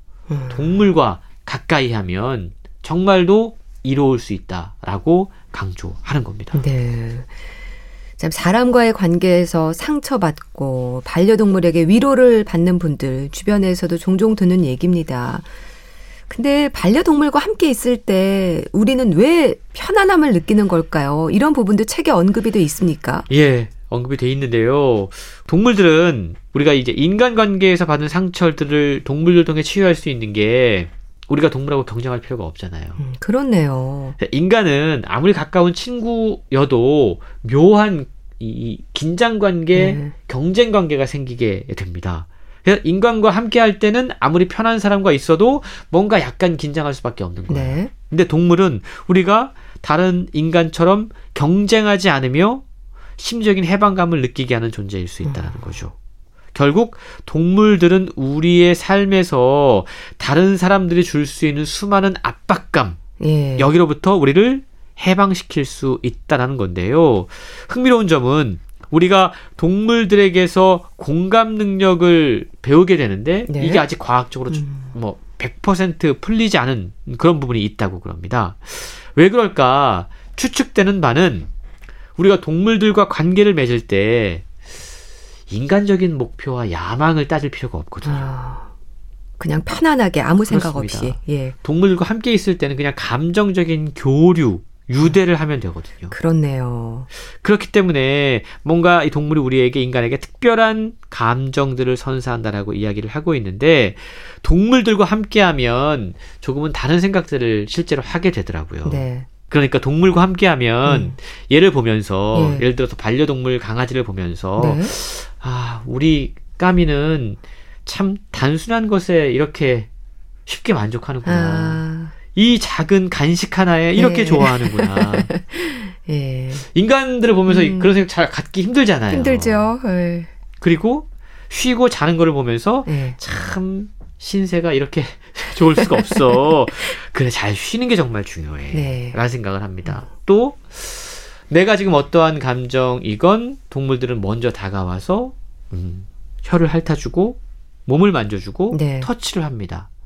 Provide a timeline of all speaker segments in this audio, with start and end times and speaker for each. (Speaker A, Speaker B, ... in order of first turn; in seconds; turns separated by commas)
Speaker A: 0.3-0.8, Speaker B: 0.5-6.6, Speaker A: 6.5-7.3, Speaker A: 8.2-15.5, Speaker A: 16.3-23.3, Speaker B: 23.3-33.0, Speaker A: 33.0-34.2, Speaker B: 34.2-52.6, Speaker A: 39.7-40.1, Speaker A: 47.5-47.9, Speaker B: 53.2-55.9, Speaker A: 55.2-55.7, Speaker B: 56.5-63.0, Speaker A: 63.2-63.7, Speaker B: 63.6-81.5, Speaker A: 73.5-73.8, Speaker A: 74.5-74.9, Speaker B: 82.2-84.5, Speaker B: 85.5-88.3, Speaker A: 88.0-88.7, Speaker A: 89.4-91.6, Speaker B: 90.5-96.2, Speaker A: 96.1-97.1, Speaker B: 97.4-119.9, Speaker A: 108.8-109.3, Speaker A: 110.8-111.2, Speaker A: 112.3-112.7, Speaker A: 114.6-114.9, Speaker B: 120.5-121.8, Speaker A: 121.2-122.2, Speaker B: 122.3-125.3, Speaker A: 124.0-126.7, Speaker B: 126.7-129.7, Speaker A: 127.5-127.9, Speaker A: 129.1-130.3, Speaker B: 130.6-149.9, Speaker A: 132.9-133.2, Speaker A: 135.8-136.5, Speaker A: 138.7-139.2, Speaker A: 148.7-149.1